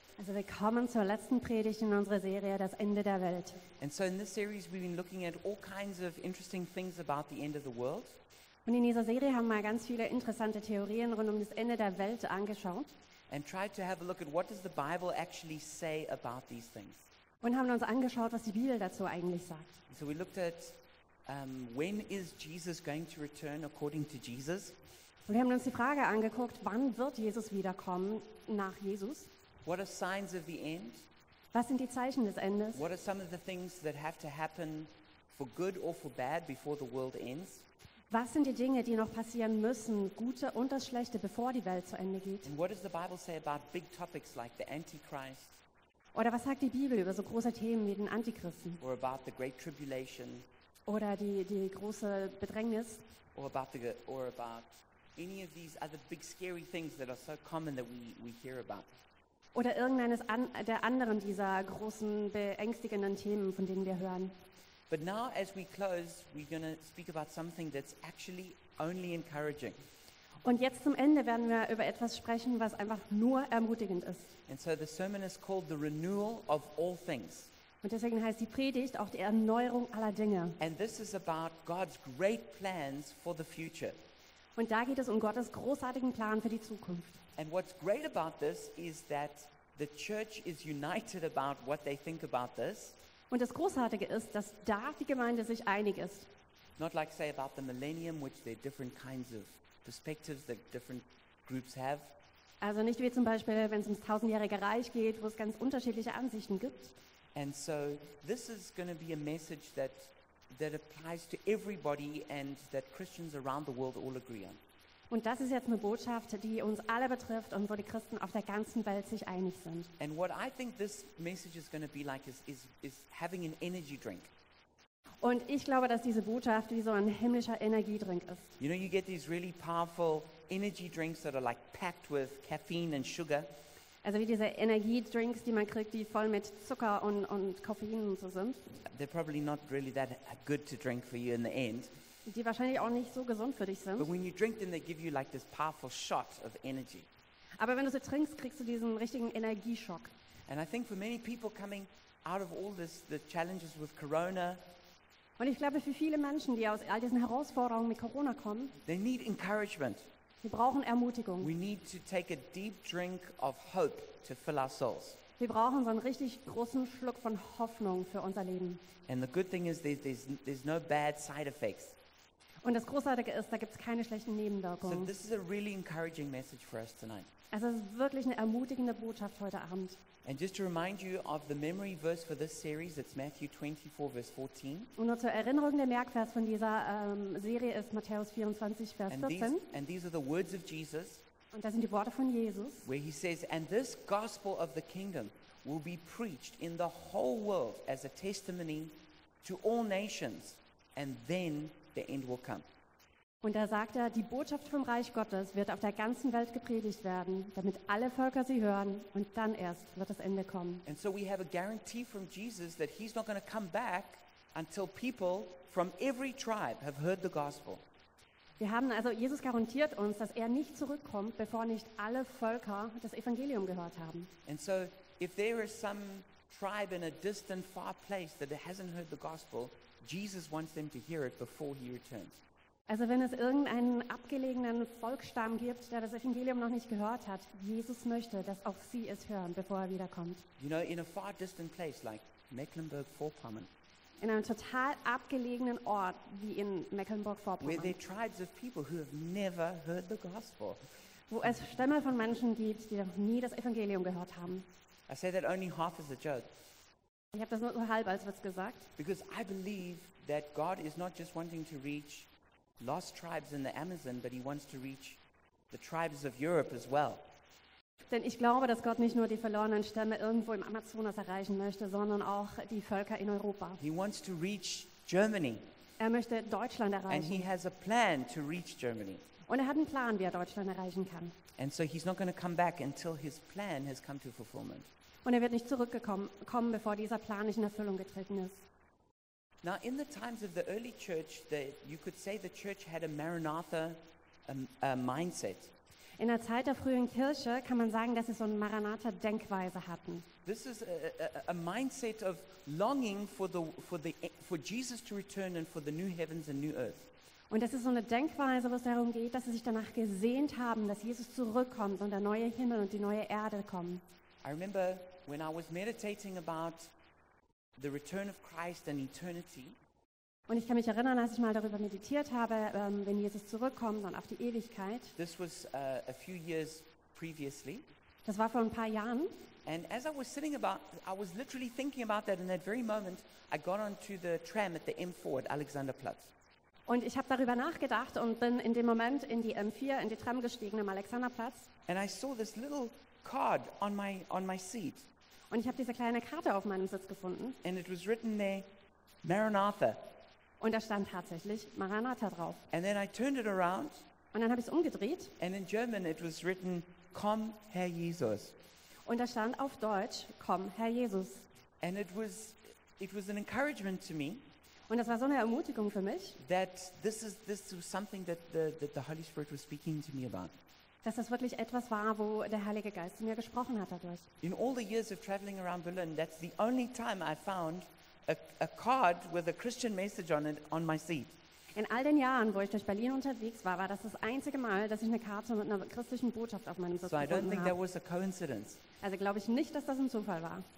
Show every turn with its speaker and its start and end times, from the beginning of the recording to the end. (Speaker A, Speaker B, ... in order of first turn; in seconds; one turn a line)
Speaker A: 0.2-3.6
Speaker B: 3.8-8.2
Speaker A: 8.6-12.9
Speaker B: 13.3-17.1
Speaker A: 17.4-19.8
Speaker B: 19.9-24.8
Speaker A: 25.2-29.3
Speaker B: 29.6-31.1
Speaker A: 31.5-32.8
Speaker B: 32.7-37.6
Speaker A: 38.1-42.5
Speaker B: 42.4-45.6
Speaker A: 46.1-48.8
Speaker B: 48.8-50.5
Speaker A: 50.9-53.0
Speaker B: 53.3-58.9
Speaker A: 59.5-64.3
Speaker B: 64.9-69.8
Speaker A: 70.4-74.3
Speaker B: 74.5-77.5
Speaker A: 77.8-80.6
Speaker B: 80.6-84.0
Speaker A: 84.5-87.2
Speaker B: 87.4-93.0
Speaker A: 93.3-96.3
Speaker B: 96.8-102.1
Speaker A: 102.6-107.0
Speaker B: 107.3-114.6
Speaker A: 115.1-119.9
Speaker B: 120.0-124.3
Speaker A: 125.2-128.5
Speaker B: 128.6-133.5
Speaker A: 134.0-138.6
Speaker B: 138.9-141.9
Speaker A: 142.2-144.1
Speaker B: 144.0-147.1
Speaker A: 147.6-150.1
Speaker B: 150.5-154.6
Speaker A: 155.4-158.8
Speaker B: 158.8-160.1
Speaker A: 160.4-161.5
Speaker B: 161.4-165.2
Speaker A: 165.4-168.8
Speaker B: 169.1-171.9
Speaker A: 172.6-175.1
Speaker B: 174.8-177.3
Speaker A: 177.5-180.0
Speaker B: 180.2-184.9
Speaker A: 185.0-189.6
Speaker B: 189.1-191.2
Speaker A: 191.5-192.9
Speaker B: 192.8-202.6
Speaker A: 203.4-210.8
Speaker B: 210.8-217.8
Speaker A: 218.6-224.3
Speaker B: 224.4-232.4
Speaker A: 232.9-240.4
Speaker B: 240.6-243.7
Speaker A: 244.2-248.0
Speaker B: 247.6-250.8
Speaker A: 251.3-254.7
Speaker B: 255.1-256.5
Speaker A: 257.3-258.9
Speaker B: 259.0-262.3
Speaker B: 262.8-265.2
Speaker B: 265.7-267.2
Speaker A: 268.1-273.8
Speaker B: 273.8-275.6
Speaker A: 276.0-277.5
Speaker B: 277.1-279.3
Speaker A: 279.5-281.4
Speaker B: 281.6-284.9
Speaker A: 285.2-288.6
Speaker B: 289.6-295.7
Speaker A: 296.2-300.3
Speaker B: 300.4-307.1
Speaker A: 307.5-314.0
Speaker B: 314.4-316.9
Speaker B: 317.8-319.8
Speaker A: 320.5-325.1
Speaker B: 325.2-327.9
Speaker A: 328.2-329.3
Speaker B: 329.6-336.3
Speaker A: 336.9-341.7
Speaker B: 341.9-345.1
Speaker A: 345.5-347.6
Speaker B: 347.6-348.7
Speaker B: 349.2-350.0
Speaker A: 350.6-352.6
Speaker B: 352.7-354.0
Speaker A: 354.3-355.3
Speaker B: 355.4-358.5
Speaker A: 359.1-361.5
Speaker B: 361.8-364.4
Speaker A: 364.9-366.4
Speaker B: 366.4-370.5
Speaker A: 371.0-374.3
Speaker B: 374.4-381.4
Speaker A: 381.7-387.8
Speaker B: 387.0-388.8
Speaker A: 389.0-390.7